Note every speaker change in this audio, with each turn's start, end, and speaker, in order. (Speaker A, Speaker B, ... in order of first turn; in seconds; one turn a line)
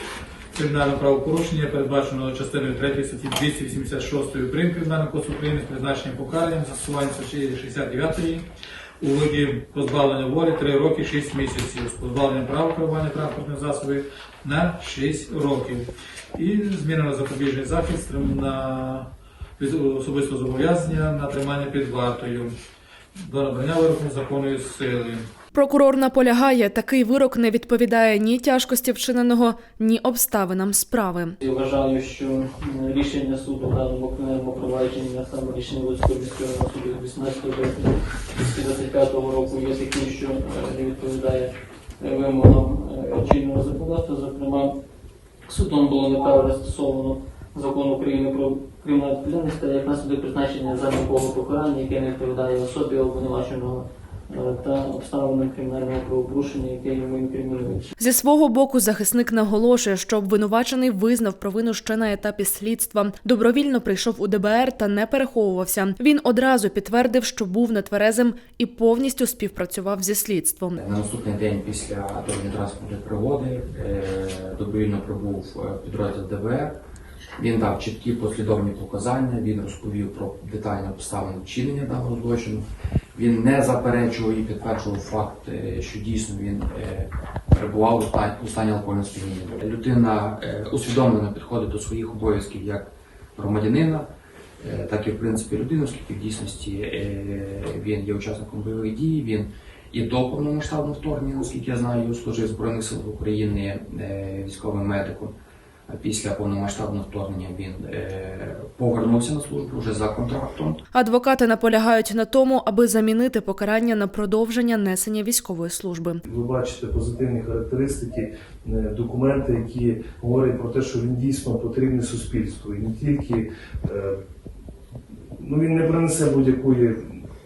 Speaker A: 0.5-8.4
Speaker A: 9.0-22.6
Speaker A: 23.2-25.2
Speaker B: 25.5-31.4
Speaker C: 31.4-44.7
Speaker C: 45.5-57.9
Speaker B: 58.0-70.8
Speaker D: 70.8-76.8
Speaker D: 77.4-94.1
Speaker D: 94.6-105.3
Speaker D: 105.9-110.8
Speaker B: 110.9-116.2
Speaker E: 116.2-124.2
Speaker E: 125.4-127.2